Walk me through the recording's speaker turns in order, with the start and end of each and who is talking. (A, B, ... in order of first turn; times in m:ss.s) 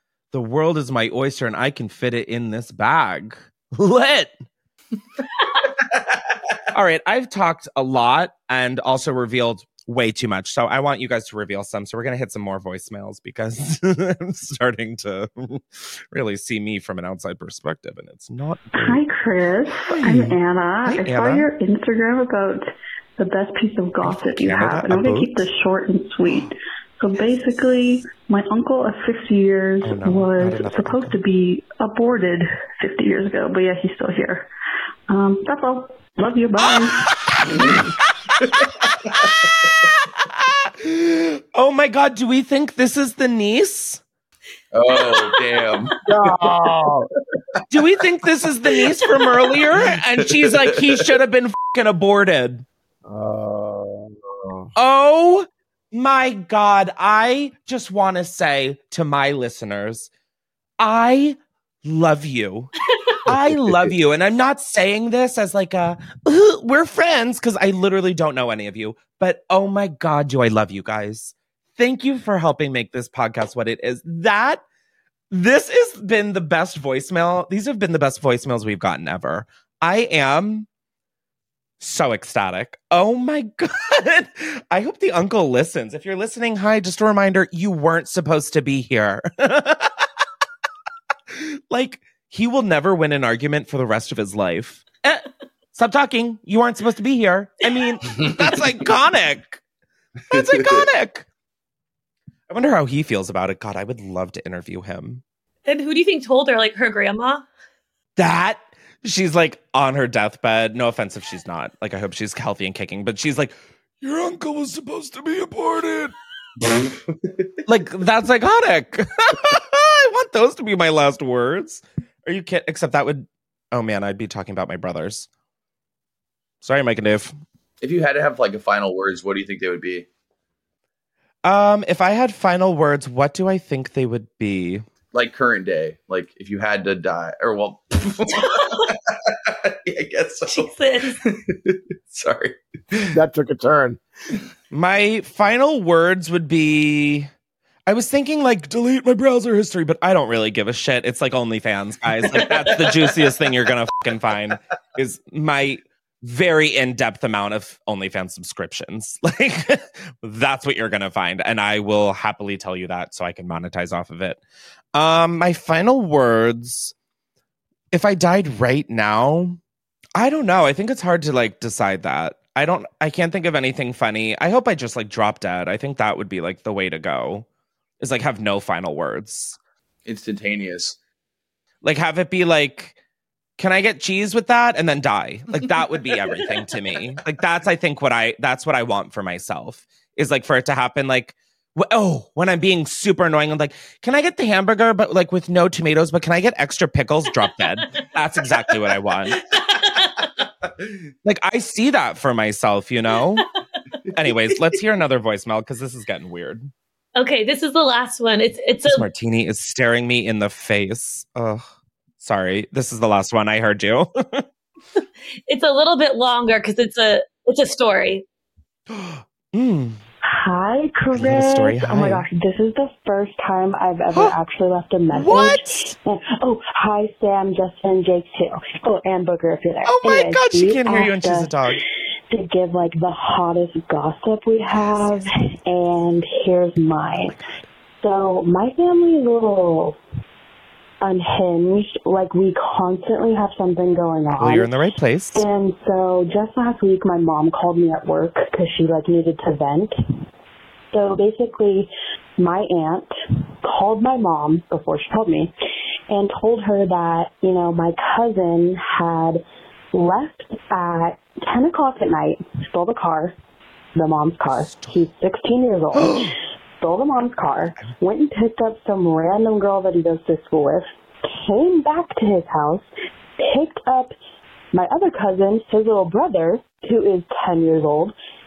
0:00.3-0:04.4 A
0:06.7-0:19.0 A
0:18.8-0:22.6 B
0:19.9-0:21.5 A
0:23.2-0:34.5 B
0:24.0-0:25.5 A
0:29.8-0:31.2 A
0:35.1-0:37.1 B
0:36.7-0:44.0 A
0:44.7-0:46.0 C
0:46.1-0:47.1 D
0:47.7-0:52.6 A
0:50.2-0:51.0 C
0:53.0-0:54.7 D
0:54.8-1:00.1 A
1:00.8-1:02.7 A
1:03.3-1:14.6 A
1:03.3-1:03.9 D
1:15.3-1:20.7 A
1:21.8-1:30.1 A
1:31.3-1:39.6 A
1:40.3-1:41.3 A
1:40.4-1:40.7 C
1:42.5-1:45.2 A
1:45.7-1:47.4 E
1:48.2-1:56.1 A
1:57.7-2:05.3 A
2:06.6-2:07.3 A
2:07.8-2:10.1 C
2:11.4-2:14.8 A
2:15.1-2:23.1 C
2:18.4-2:18.9 E
2:20.5-2:21.2 E
2:23.1-2:24.0 D
2:24.7-2:27.3 A
2:27.9-2:44.4 A
2:45.0-2:46.9 A
2:47.9-2:49.6 A
2:50.2-2:57.5 A
2:58.0-2:59.6 A
3:00.1-3:01.0 C
3:01.8-3:03.0 A
3:03.6-3:19.4 A
3:19.5-3:20.2 E
3:21.2-3:23.5 A
3:24.1-3:26.7 A
3:27.2-3:29.0 E
3:28.9-3:31.6 A
3:32.2-3:34.4 A
3:35.5-3:38.2 E
3:38.9-3:40.0 A
3:40.3-3:51.5 F
3:41.1-3:42.3 A
3:44.1-3:44.4 A
3:45.1-3:46.0 A
3:49.8-3:51.8 A
3:52.3-3:57.4 F
3:54.8-3:55.3 A
3:57.2-3:57.6 A
3:58.0-4:00.0 F
4:01.0-4:04.7 F
4:04.3-4:05.4 A
4:05.4-4:09.9 F
4:10.9-4:13.1 F
4:13.6-4:15.5 F
4:16.1-4:19.4 F
4:19.9-4:23.4 F
4:24.0-4:32.9 F
4:24.5-4:25.0 A
4:25.9-4:26.4 A
4:33.4-4:34.1 F
4:34.7-4:38.1 F